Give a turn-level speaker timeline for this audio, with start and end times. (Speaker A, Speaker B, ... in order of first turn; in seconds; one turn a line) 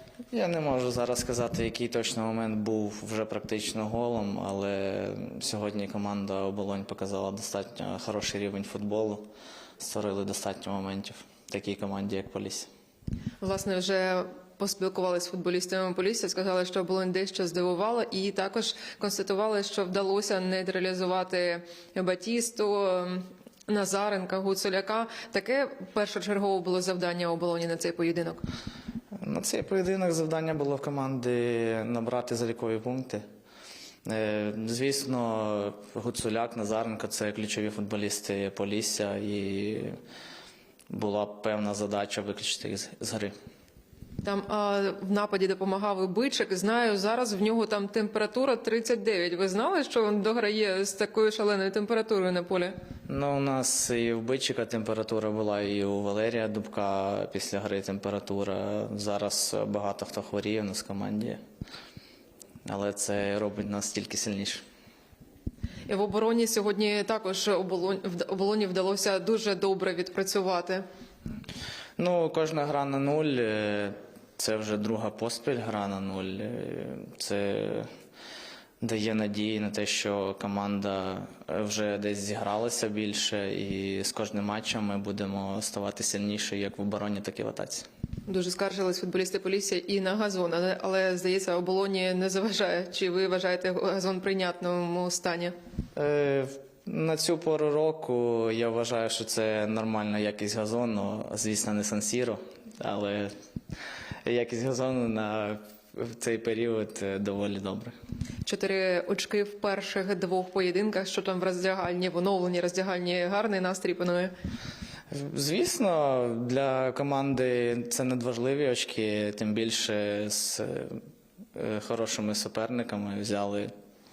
Speaker A: 0.3-9.2
Speaker A: 9.8-12.7
Speaker B: 13.4-28.4
Speaker A: 29.2-33.2
Speaker A: 34.0-40.0
Speaker A: 40.9-43.3
Speaker B: 44.2-52.7
Speaker A: 53.1-61.4
Speaker A: 62.7-64.6
Speaker B: 65.9-70.8
Speaker A: 72.0-77.9
Speaker A: 78.8-87.9
Speaker B: 88.3-95.5
Speaker A: 96.0-103.3
Speaker A: 104.2-108.0
Speaker B: 108.5-114.3
Speaker A: 115.1-121.0
Speaker A: 121.5-123.7